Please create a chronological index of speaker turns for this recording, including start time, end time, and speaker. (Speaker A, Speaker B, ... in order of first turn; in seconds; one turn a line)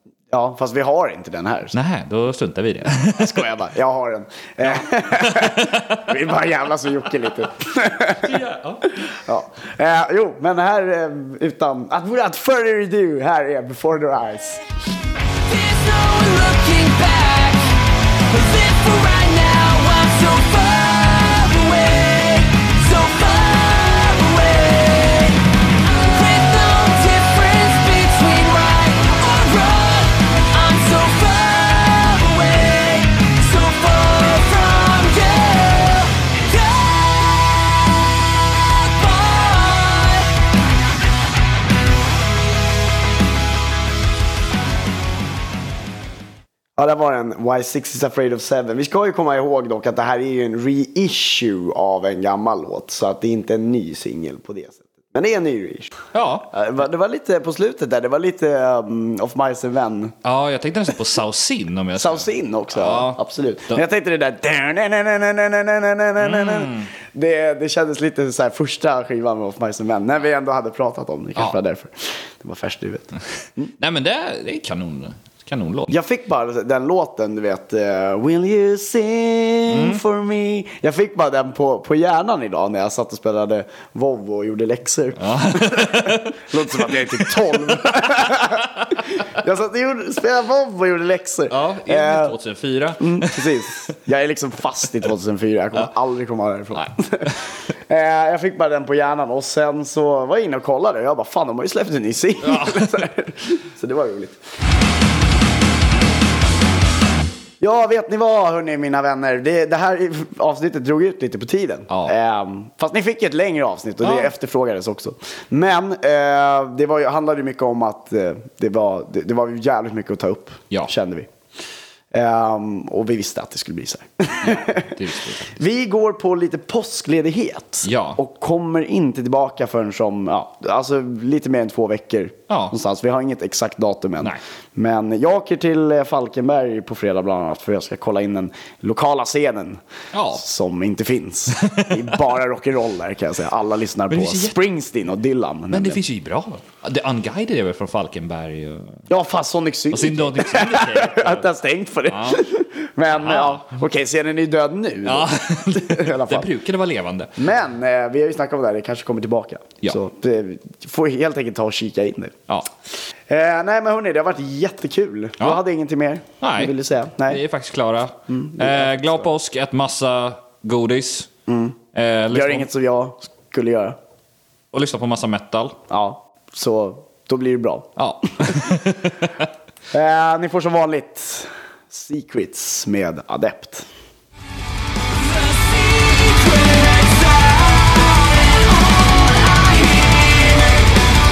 Speaker A: 0.3-1.8
Speaker B: 1.7-3.5
Speaker A: 3.1-14.6
Speaker B: 5.1-5.8
Speaker B: 8.2-8.9
Speaker C: 15.3-40.3
Speaker A: 46.8-55.9
Speaker B: 56.1-56.5
Speaker A: 56.5-60.1
Speaker B: 60.2-63.8
Speaker A: 62.0-73.7
Speaker B: 66.2-66.9
Speaker B: 73.8-75.9
Speaker A: 75.9-92.4
Speaker B: 79.7-80.0
Speaker B: 85.2-89.0
Speaker B: 91.5-93.6
Speaker A: 93.0-104.4
Speaker B: 102.4-103.1
Speaker A: 107.6-121.3
Speaker B: 114.0-114.3
Speaker A: 122.1-139.8
Speaker B: 124.4-125.5
Speaker B: 127.8-128.2
Speaker B: 132.5-132.7
Speaker B: 140.1-140.4
Speaker A: 140.3-146.0
Speaker B: 141.5-142.2
Speaker B: 144.1-144.6
Speaker B: 145.7-149.0
Speaker A: 149.1-156.5
Speaker B: 149.9-151.5
Speaker B: 152.1-152.4
Speaker B: 153.1-153.7
Speaker B: 155.0-157.4
Speaker A: 157.4-162.4
Speaker A: 163.3-167.4
Speaker B: 166.4-166.7
Speaker B: 167.2-171.3
Speaker A: 168.3-169.2
Speaker A: 171.5-171.8
Speaker B: 171.9-172.7
Speaker A: 172.3-174.0
Speaker B: 174.7-175.8
Speaker A: 175.9-178.8
Speaker B: 178.0-179.5
Speaker A: 179.9-183.9
Speaker C: 185.1-191.0